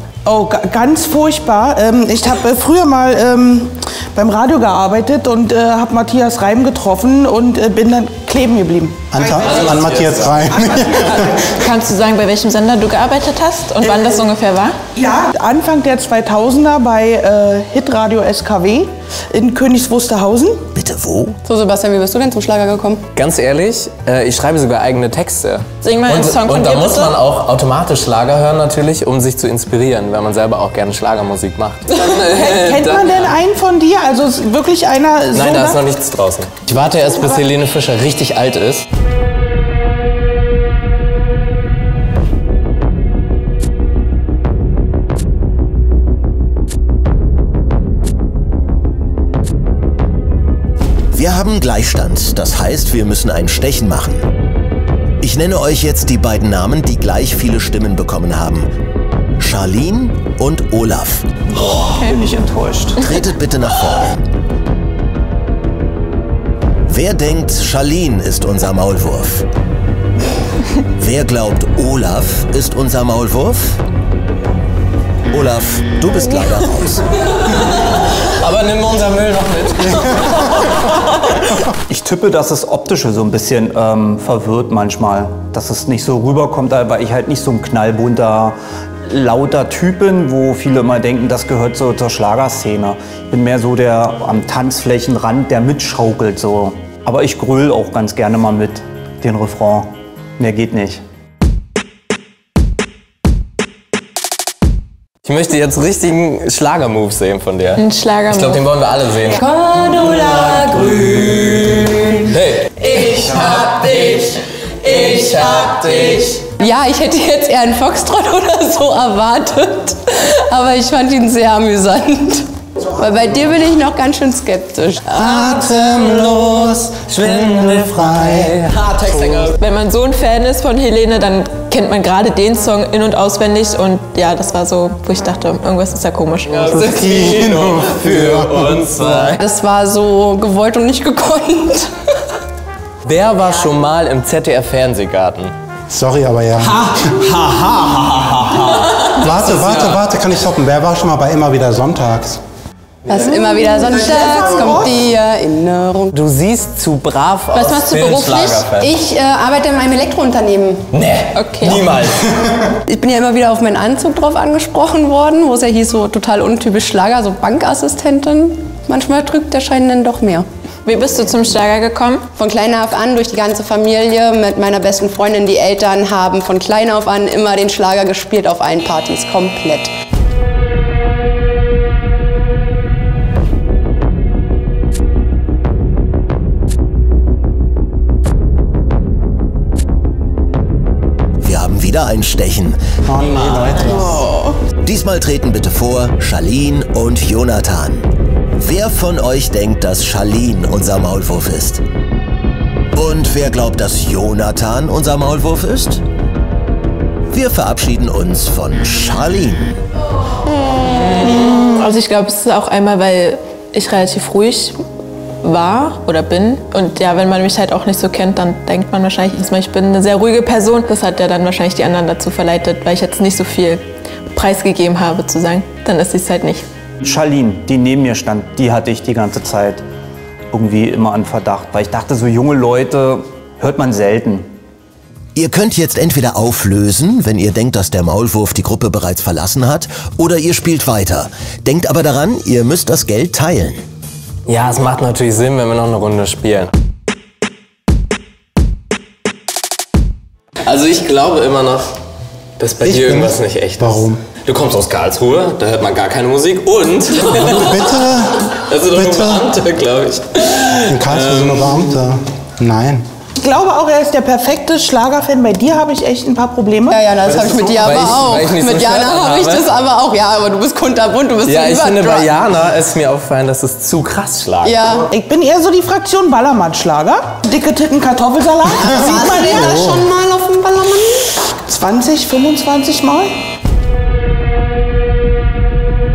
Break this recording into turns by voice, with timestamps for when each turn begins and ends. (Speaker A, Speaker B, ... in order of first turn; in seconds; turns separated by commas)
Speaker A: 0.2-11.4, Speaker B: 9.1-11.4, Speaker C: 9.5-10.5, Speaker D: 11.0-14.8, Speaker A: 13.8-14.2, Speaker A: 14.9-20.6, Speaker E: 20.8-21.4, Speaker F: 21.4-23.0, Speaker C: 23.2-33.3, Speaker D: 25.8-27.2, Speaker A: 31.9-35.8, Speaker C: 35.4-38.8, Speaker E: 51.1-54.2, Speaker E: 55.2-58.7, Speaker E: 59.4-61.3, Speaker G: 61.5-63.1, Speaker D: 61.9-62.1, Speaker E: 63.0-64.2, Speaker E: 66.9-69.5, Speaker E: 71.0-73.8, Speaker E: 75.3-77.0, Speaker C: 78.1-80.8, Speaker G: 81.9-88.6, Speaker G: 89.1-101.0, Speaker C: 105.2-107.8, Speaker D: 107.8-108.6, Speaker C: 108.4-109.4, Speaker F: 109.4-111.1, Speaker C: 110.6-116.5, Speaker F: 116.6-125.0, Speaker B: 125.1-129.6, Speaker C: 125.4-125.8, Speaker C: 127.6-129.5, Speaker D: 129.6-136.7, Speaker C: 136.5-139.4, Speaker B: 136.7-139.3, Speaker F: 139.4-141.9, Speaker C: 143.1-145.5, Speaker B: 145.9-147.1, Speaker G: 147.6-148.8, Speaker C: 149.0-149.8, Speaker B: 149.2-152.4, Speaker F: 153.1-156.1, Speaker A: 153.6-155.0, Speaker C: 156.1-159.0, Speaker F: 157.5-160.8, Speaker C: 160.9-162.4, Speaker D: 161.3-161.8, Speaker F: 162.9-170.5, Speaker D: 170.9-172.2, Speaker F: 172.4-179.9, Speaker E: 191.4-192.8, Speaker B: 193.1-194.1, Speaker A: 193.8-194.6, Speaker E: 194.8-198.1, Speaker E: 198.6-201.8, Speaker E: 202.9-206.0, Speaker E: 207.3-209.8, Speaker D: 210.9-214.8, Speaker D: 215.4-223.8, Speaker D: 224.3-226.7, Speaker G: 227.0-229.8, Speaker G: 230.5-234.5, Speaker E: 235.3-243.8, Speaker C: 244.5-246.7, Speaker C: 250.6-252.0, Speaker C: 252.6-257.9, Speaker B: 252.8-254.2, Speaker B: 257.3-259.5, Speaker C: 258.5-261.6, Speaker B: 260.9-263.0, Speaker A: 263.4-266.9, Speaker F: 266.9-272.3, Speaker C: 267.8-269.7, Speaker C: 271.4-274.8, Speaker F: 274.6-275.1, Speaker A: 275.1-279.7, Speaker F: 278.8-281.3, Speaker B: 279.5-280.1, Speaker A: 281.7-283.3